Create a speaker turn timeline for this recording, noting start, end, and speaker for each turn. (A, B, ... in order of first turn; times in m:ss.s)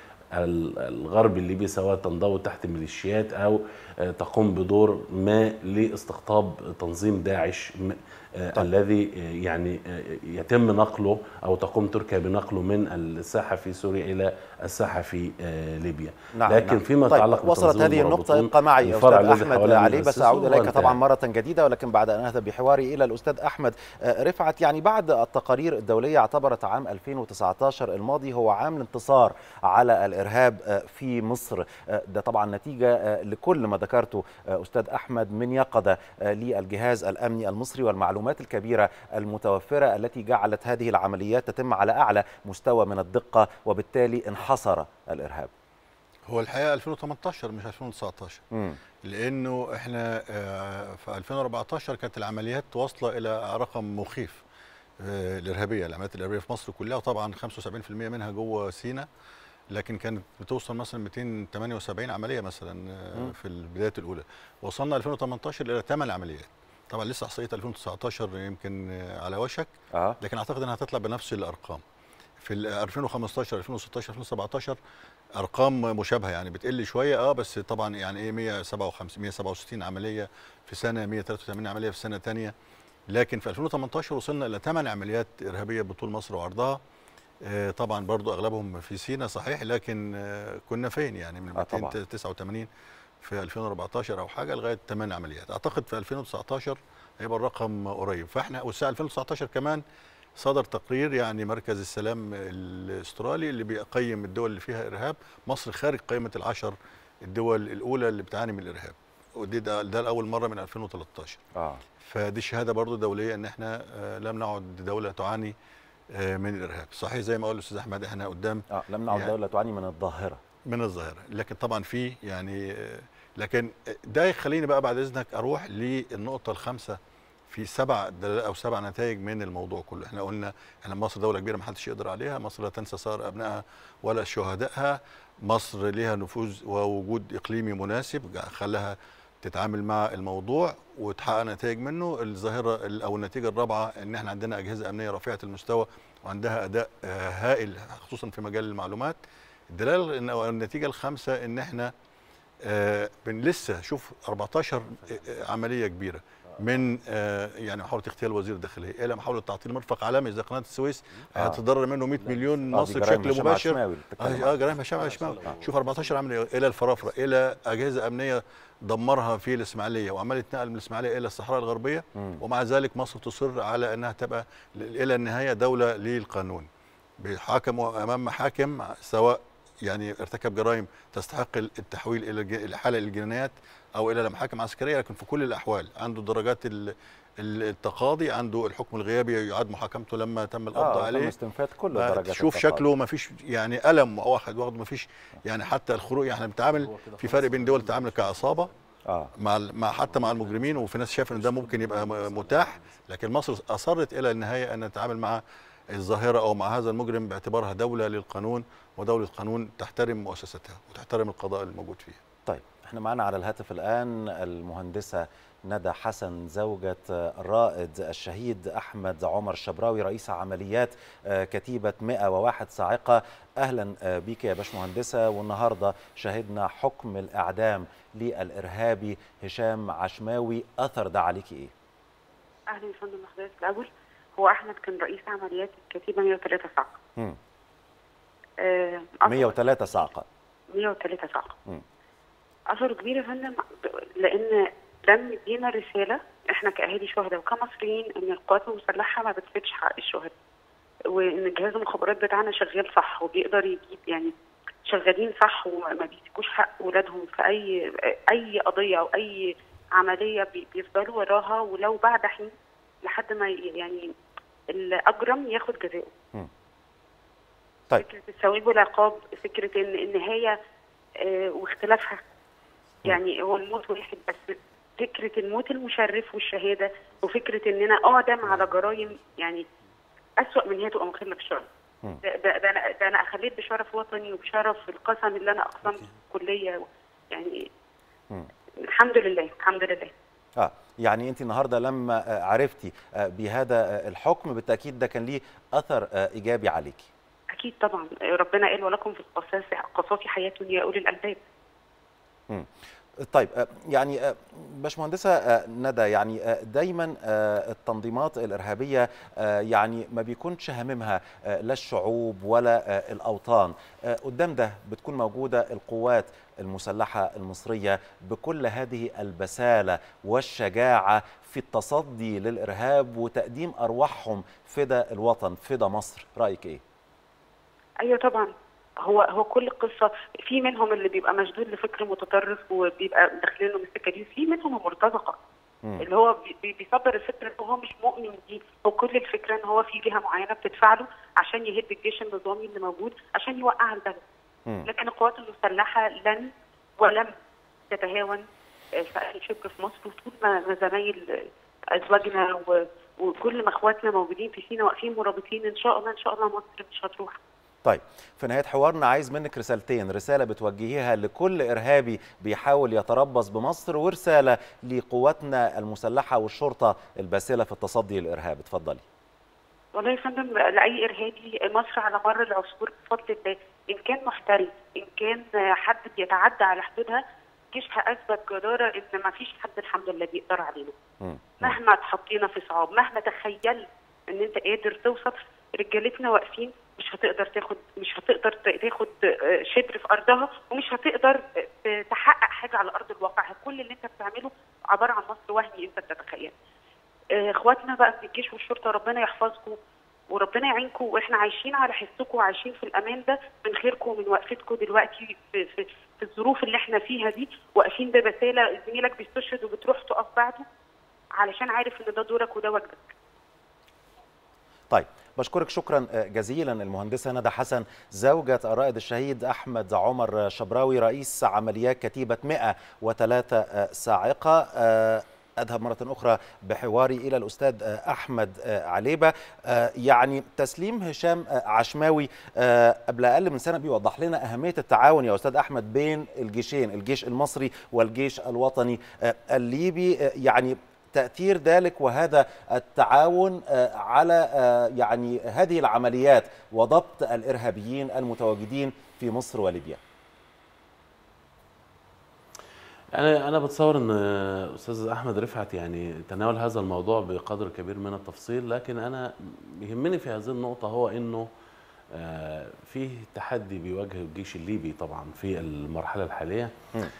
0:00.4-0:09.8 A
0:10.3-0:21.0 A
0:16.4-0:45.5 B
0:46.3-0:48.4 C
0:48.5-0:48.8 B
0:49.0-0:54.4 C
0:55.0-0:59.0 C
0:59.7-1:09.7 C
1:09.9-1:10.2 B
1:10.2-1:11.8 C
1:12.4-1:14.8 C
1:15.4-1:22.5 C
1:23.1-1:26.8 C
1:27.4-1:32.7 C
1:31.6-1:31.9 B
1:33.2-1:39.8 C
1:40.4-1:51.4 C
1:51.5-1:51.8 B
1:52.0-1:55.5 C
1:56.1-1:59.3 C
1:58.7-2:00.4 B
2:00.7-2:07.0 C
2:07.5-2:29.2 C
2:29.7-2:31.9 C
2:32.6-2:56.7 C
2:35.0-2:35.3 A
2:42.2-2:42.6 A
2:42.7-2:44.7 B
2:44.9-2:46.2 A
2:47.0-2:47.3 A
2:52.2-2:52.4 B
2:57.2-3:11.3 C
3:10.7-3:12.8 B
3:11.9-3:18.7 C
3:16.7-3:18.7 A
3:19.4-3:25.4 C
3:19.9-3:23.0 A
3:25.9-3:32.2 C
3:32.4-3:51.7 B
3:52.7-3:56.9 D
3:58.6-4:00.0 D
3:59.3-4:00.2 B
4:00.7-4:01.5 D
4:02.7-4:03.6 D
4:04.2-4:10.3 D
4:11.1-4:14.3 D
4:14.9-4:17.7 D
4:18.3-4:19.4 D
4:20.0-4:22.5 D
4:23.0-4:24.1 D
4:24.7-4:26.1 D
4:28.0-4:30.5 D
4:31.2-4:32.2 D
4:33.1-4:39.6 D
4:40.4-4:41.6 D
4:42.3-4:47.6 D
4:48.9-4:50.1 D
4:50.6-4:57.1 B
4:57.6-5:01.4 D
5:03.2-5:26.8 B
5:28.0-5:28.5 D
5:29.0-5:35.4 D
5:36.0-5:44.2 D
5:44.9-5:47.3 D
5:47.9-5:48.4 D
5:49.0-5:51.2 D
5:52.0-5:57.3 D
5:57.8-6:09.0 B
6:10.0-6:17.2 D
6:17.7-6:20.9 D
6:21.2-6:21.7 B
6:21.6-6:29.1 D
6:29.7-6:36.5 D
6:37.4-6:39.8 D
6:40.3-6:50.6 D
6:51.4-6:53.1 D
6:54.9-7:30.0 B
7:33.1-7:41.5 A
7:42.1-7:46.7 A